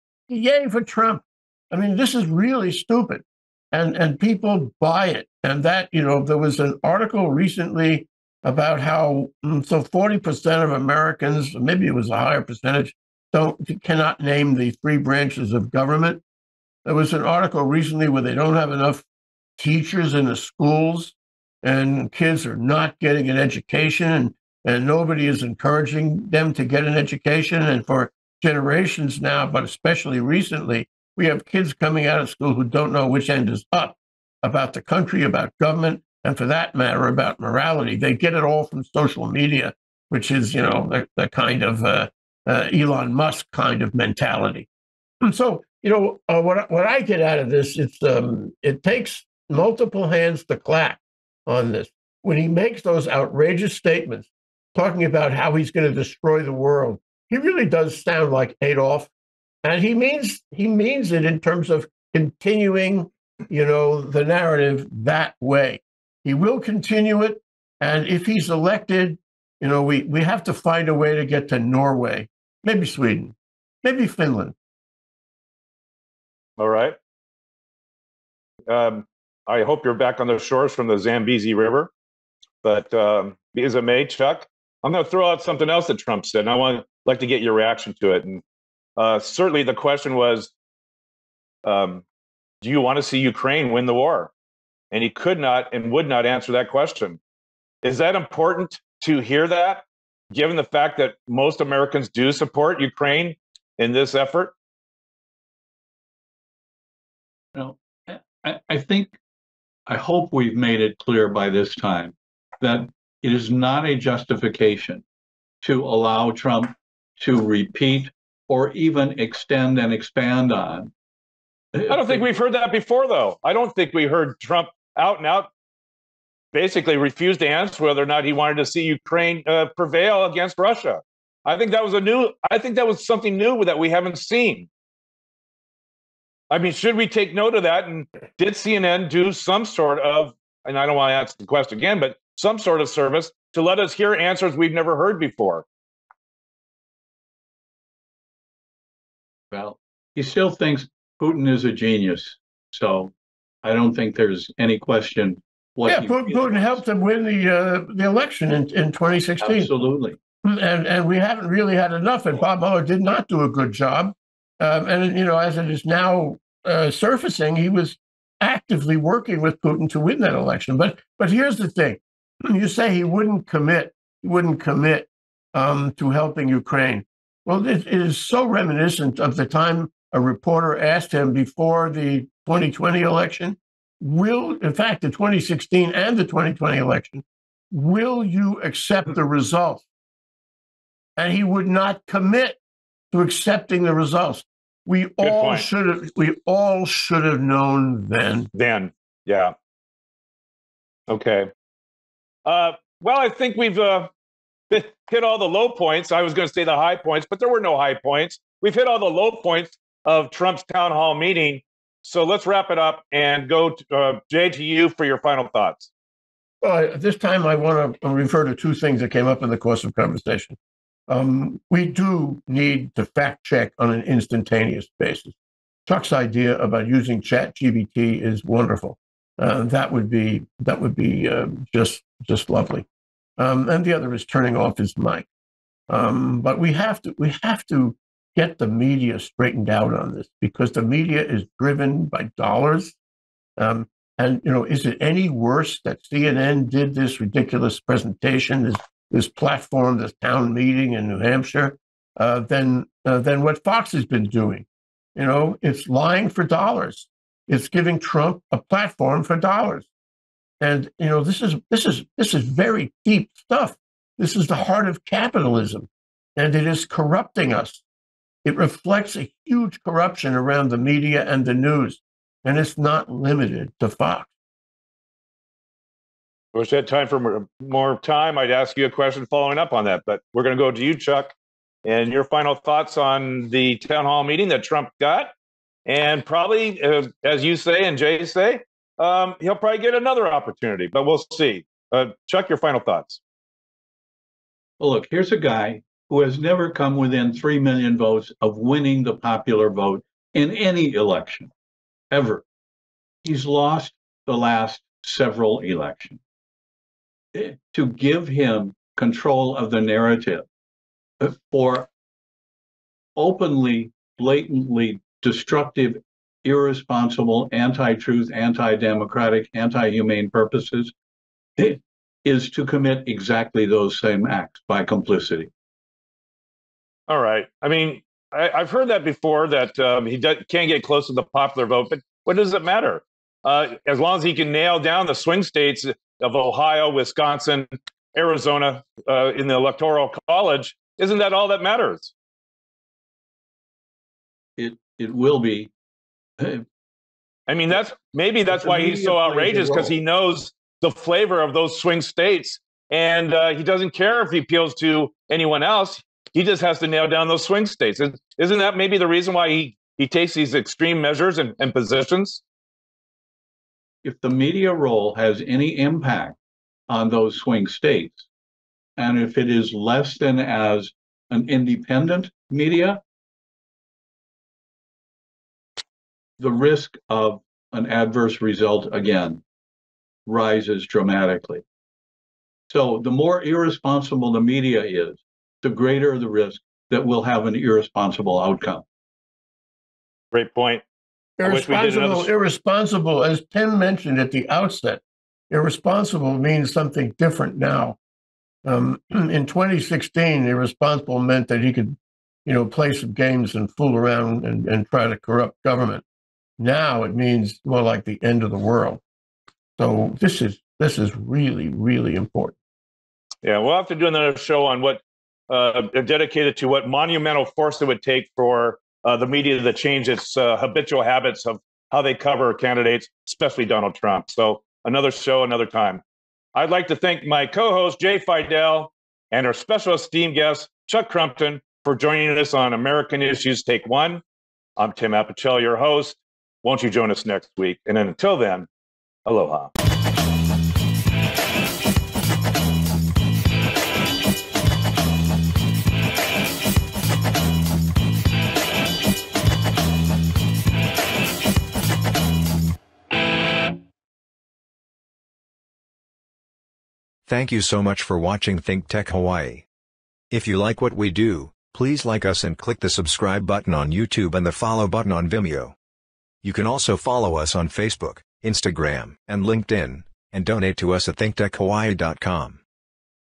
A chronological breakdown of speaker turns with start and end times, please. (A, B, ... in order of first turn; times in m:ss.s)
0:00.3-0:16.2 A
0:16.8-0:19.0 A
0:19.6-0:44.7 A
0:45.2-0:59.1 A
0:59.6-1:14.6 A
1:16.6-1:17.0 B
1:18.7-1:21.9 B
1:22.6-1:28.4 B
1:29.0-1:30.5 B
1:31.6-1:32.0 B
1:32.6-1:34.3 B
1:34.9-1:37.2 B
1:37.8-1:44.5 B
1:47.6-1:49.2 C
1:49.9-1:55.0 C
1:55.6-2:00.9 C
2:01.7-2:02.3 C
2:01.9-2:05.5 B
2:06.5-2:14.7 B
2:16.5-2:25.6 B
2:29.5-2:33.1 C
2:33.6-2:36.8 C
2:35.9-2:39.7 A
2:39.4-2:40.2 C
2:40.4-3:09.9 A
3:11.2-3:12.6 A
3:13.1-3:18.5 A
3:15.2-3:15.7 B
3:18.5-3:19.5 B
3:21.1-3:21.5 B
3:22.4-3:24.1 B
3:24.7-3:35.9 B
3:36.6-3:40.6 A
3:41.1-3:45.4 A
3:45.9-3:52.9 A
3:53.4-3:55.3 A
3:55.9-4:03.0 A
4:03.6-4:19.9 A
4:20.6-4:27.8 A
4:28.4-4:34.3 A
4:36.5-4:41.3 B
4:41.8-4:45.3 B
4:45.9-4:53.2 B
4:54.8-5:01.5 C
5:02.1-5:02.4 C
5:03.2-5:06.2 C
5:07.3-5:10.5 C
5:11.2-5:11.9 C
5:13.2-5:20.9 C
5:21.6-5:25.5 C
5:27.1-5:42.1 B
5:44.6-5:45.7 C
5:46.4-5:46.6 C
5:47.5-6:02.4 B
5:48.5-5:49.9 C
6:04.0-6:06.4 C
6:06.9-6:08.3 C
6:09.0-6:13.0 C
6:16.4-6:19.4 C
6:20.3-6:21.6 C
6:22.7-6:28.8 C
6:30.3-6:30.8 B
6:31.4-6:38.0 A
6:31.4-6:32.3 B
6:38.6-6:46.0 A
6:46.6-6:49.0 A
6:49.8-6:52.6 A
6:53.4-7:06.0 B
7:06.6-7:14.2 B
7:14.8-7:18.7 B
7:19.3-7:19.7 B
7:37.3-7:39.7 D
7:40.3-7:45.8 D
7:46.4-7:52.6 D